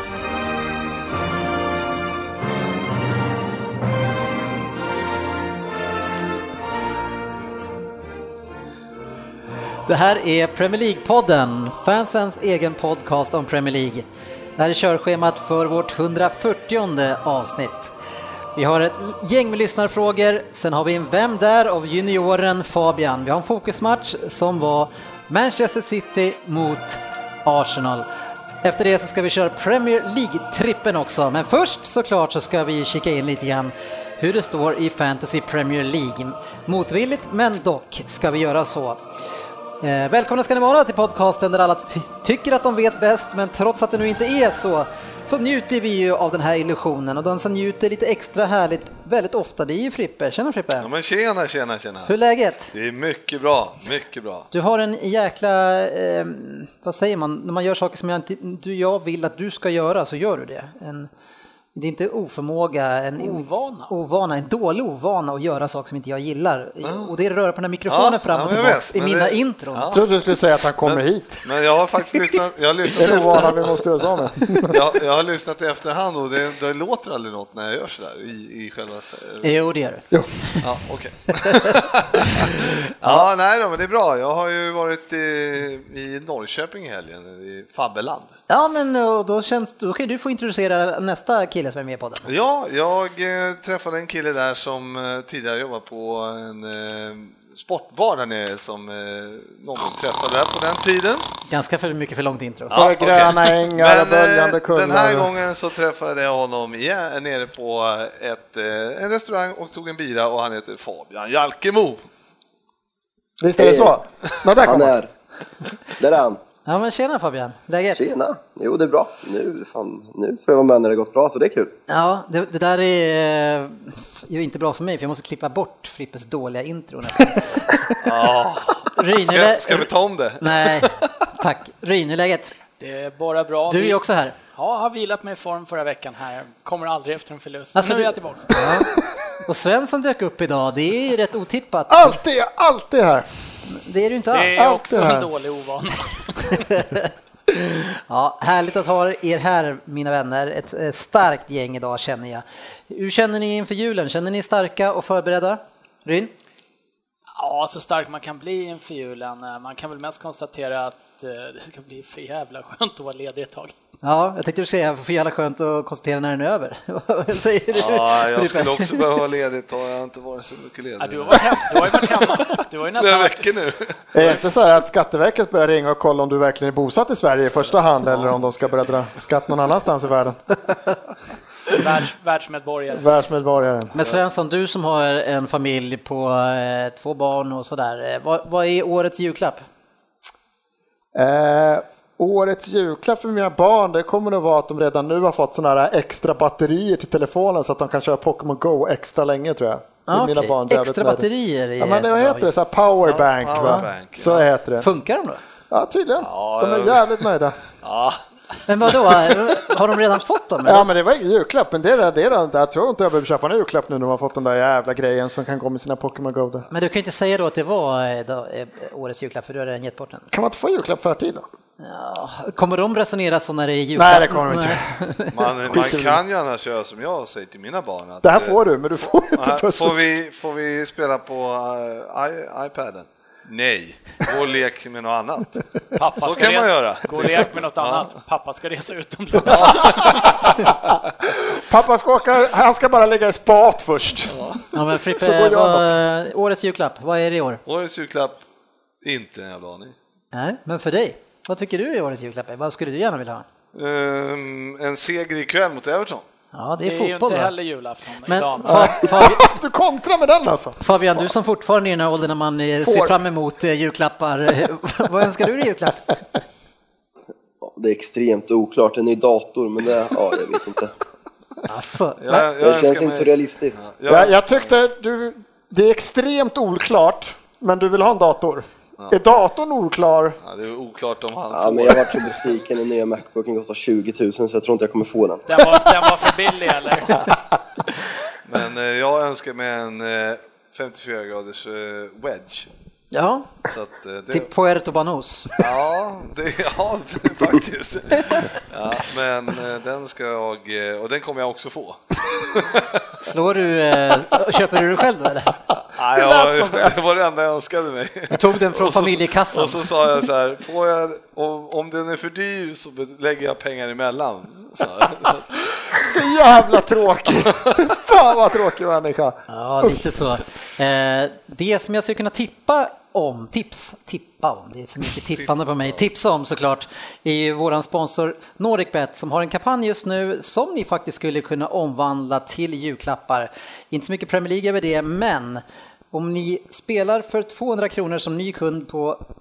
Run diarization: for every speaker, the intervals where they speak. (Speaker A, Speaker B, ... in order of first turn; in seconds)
Speaker A: 9.8-14.1, 14.6-17.9, 18.5-28.1, 28.6-39.0, 39.8-50.9, 52.1-52.7, 54.5-61.1, 61.7-69.9, 79.4-80.6, 88.5-92.3, 101.5-102.8, 116.6-118.1, 121.9-127.7, 128.9-132.5, 133.7-134.3, 137.7-138.9, 139.4-142.2, 143.7-144.7, 146.6-156.3, 164.0-169.0, 183.9-189.6, 200.1-202.5, 203.6-203.9, 204.8-205.4, 208.7-210.9, 216.7-220.3, 221.8-225.3, 244.7-247.6, 250.3-253.4, 256.5-257.5, 258.2-259.4, 260.8-266.2, 271.7-272.5, 293.1-293.5, 294.3-295.5, 303.2-305.6, 308.3-309.9, 319.5-339.2
Speaker B: 50.8-52.1, 52.7-54.5, 66.8-67.1, 67.9-70.0, 70.8-73.8, 74.7-79.5, 80.6-88.3, 92.2-101.3, 102.7-112.0, 128.0-131.3, 167.7-174.3, 178.1-178.5, 203.0-204.4, 206.2-207.2, 207.7-208.2, 225.3-228.6, 229.3-235.6, 236.2-238.1, 239.5-240.9, 244.3-244.7, 247.7-248.4, 249.0-249.9, 253.7-256.2, 272.2-274.6, 280.4-282.6, 288.4-292.7, 293.6-294.5, 295.6-303.2, 305.8-316.2, 317.4-317.9, 325.4-326.0
Speaker C: 63.2-63.9, 132.8-134.0, 134.5-138.6, 144.3-146.6, 157.4-163.7, 171.0-173.5, 181.7-183.1, 236.0-240.6, 256.8-259.0, 285.5-287.2
Speaker D: 69.9-71.4, 73.0-74.8, 102.7-105.3, 113.4-114.9, 141.9-143.2, 144.6-145.3, 174.1-180.4, 182.9-183.9, 191.1-201.2, 201.8-204.9, 205.7-207.6, 210.6-216.7, 220.3-221.4, 223.9-225.0, 225.7-226.2, 228.2-230.0, 241.2-244.4, 245.2-246.0, 258.6-261.2, 262.8-263.1, 274.1-280.4, 306.1-306.9, 315.9-320.1
Speaker E: 113.6-113.9, 114.6-115.1, 115.9-116.4, 117.9-121.7, 267.6-270.9, 272.6-273.7, 281.5-285.4